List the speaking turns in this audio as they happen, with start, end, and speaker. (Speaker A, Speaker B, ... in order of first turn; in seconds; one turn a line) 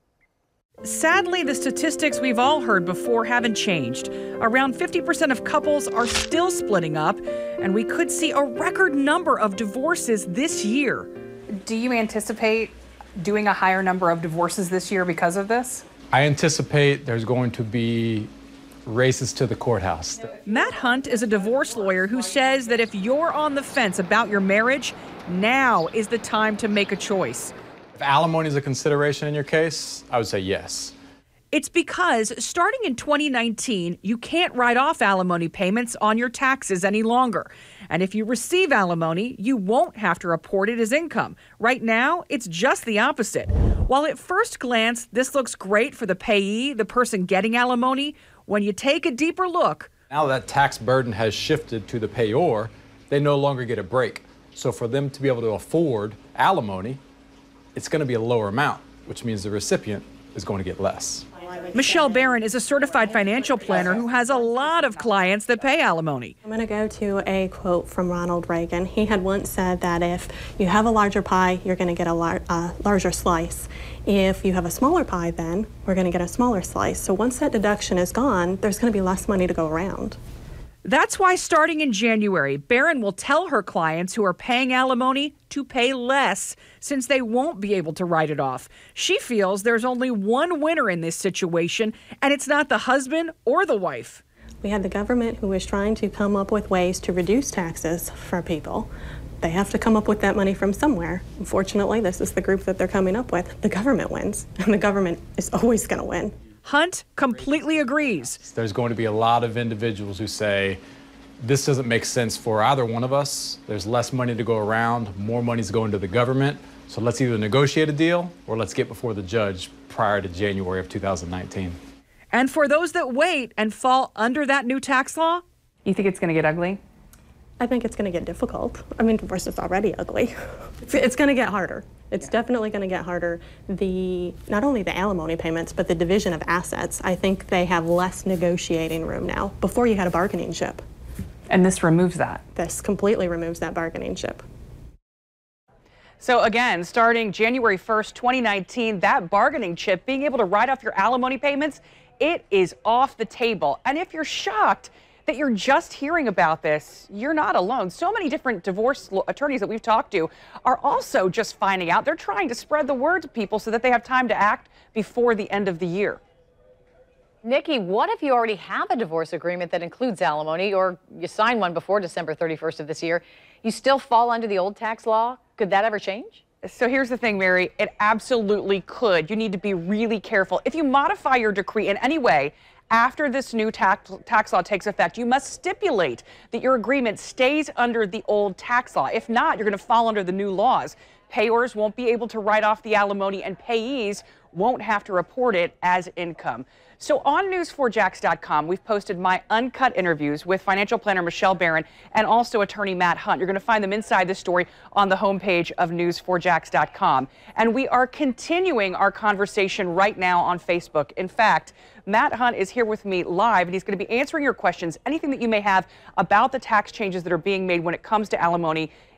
Speaker A: 0.8-11.1
Speaker A: 11.7-12.7
Speaker B: 11.7-15.8
Speaker A: 13.5-14.8
Speaker C: 16.1-18.3
Speaker C: 18.9-20.3
Speaker A: 20.4-27.5
Speaker B: 20.7-22.4
Speaker C: 27.9-30.9
Speaker A: 31.5-49.9
Speaker C: 50.1-57.0
Speaker C: 57.8-61.3
Speaker A: 61.7-66.3
Speaker B: 63.0-65.7
Speaker D: 66.5-80.2
Speaker A: 80.8-94.2
Speaker D: 94.6-98.9
Speaker D: 99.4-106.4
Speaker A: 106.7-108.4
Speaker C: 108.3-110.8
Speaker C: 111.4-121.8
Speaker A: 122.3-125.4
Speaker B: 125.8-126.8
Speaker D: 127.6-140.8
Speaker B: 141.5-142.4
Speaker D: 142.6-144.4
Speaker B: 146.2-166.2
Speaker E: 167.4-176.4
Speaker B: 176.6-218.9